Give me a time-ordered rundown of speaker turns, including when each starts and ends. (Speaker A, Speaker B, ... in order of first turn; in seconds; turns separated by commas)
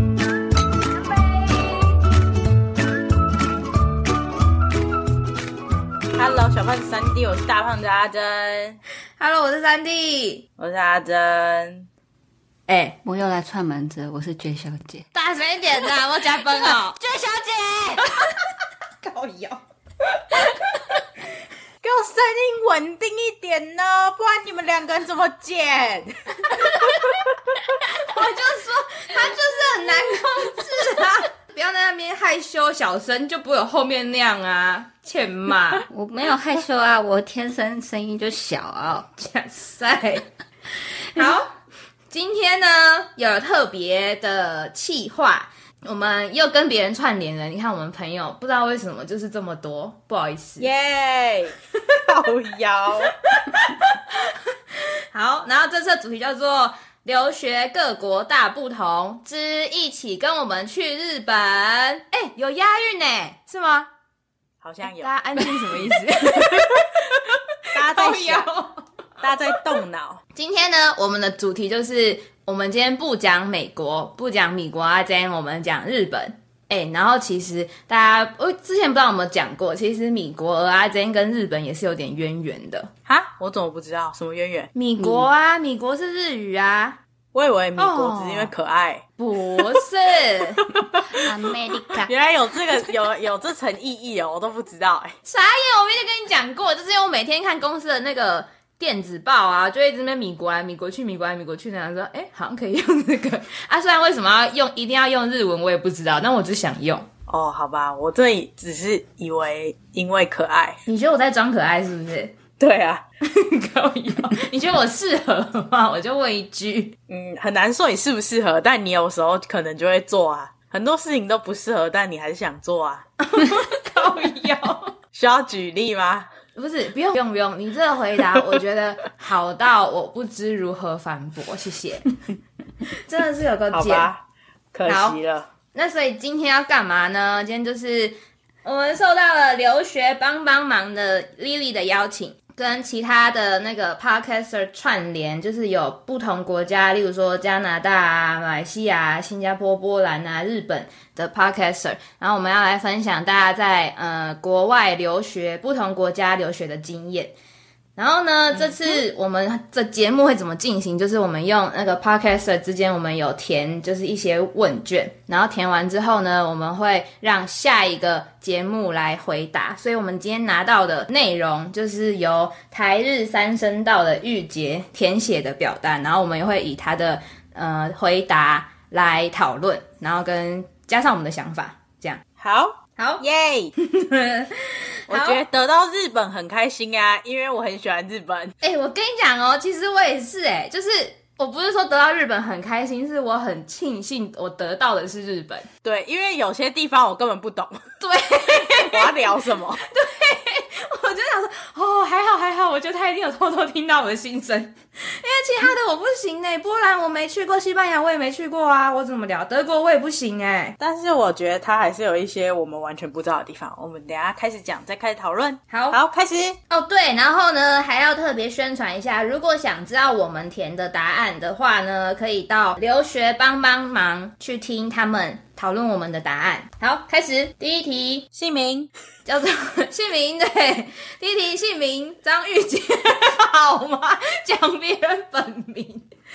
Speaker A: 6.1-8.8, Speaker B: 9.2-10.4, Speaker A: 10.6-11.9, Speaker B: 12.7-13.0, Speaker C: 13.0-15.1, Speaker B: 15.1-17.0, Speaker C: 16.7-18.1, Speaker B: 18.0-18.4, Speaker B: 19.0-19.6, Speaker B: 20.1-20.9, Speaker A: 21.8-27.1, Speaker B: 26.6-27.1, Speaker B: 27.8-35.8, Speaker C: 35.9-39.1, Speaker B: 39.2-40.3, Speaker B: 41.1-41.5, Speaker B: 42.1-50.7, Speaker A: 50.6-53.1, Speaker B: 53.2-63.9, Speaker A: 64.6-65.6, Speaker B: 64.9-68.8, Speaker A: 66.3-66.8, Speaker A: 67.7-68.5, Speaker A: 69.2-70.2, Speaker B: 70.3-82.9, Speaker A: 83.0-84.7, Speaker B: 84.7-87.0, Speaker C: 85.0-85.2, Speaker A: 87.3-89.0, Speaker B: 87.8-88.5, Speaker B: 89.2-90.7, Speaker A: 90.6-91.2, Speaker C: 91.1-92.1, Speaker A: 91.9-95.2, Speaker B: 95.2-107.1, Speaker A: 107.3-110.8, Speaker B: 110.9-112.3, Speaker A: 112.6-113.0, Speaker B: 113.2-117.0, Speaker A: 117.1-123.0, Speaker B: 123.2-124.9, Speaker A: 125.1-126.3, Speaker B: 126.5-132.1, Speaker B: 133.0-134.1, Speaker A: 133.7-134.2, Speaker A: 134.7-135.5, Speaker B: 134.9-135.2, Speaker B: 135.7-157.3, Speaker B: 158.0-182.2, Speaker A: 182.4-183.7, Speaker B: 182.9-183.2, Speaker B: 183.8-185.4, Speaker A: 185.1-188.6, Speaker B: 188.6-195.7, Speaker A: 195.8-197.8, Speaker B: 198.0-210.8, Speaker A: 198.6-199.8, Speaker A: 210.8-216.6, Speaker B: 215.7-216.0, Speaker B: 216.7-228.3, Speaker A: 228.3-228.9, Speaker B: 229.3-236.0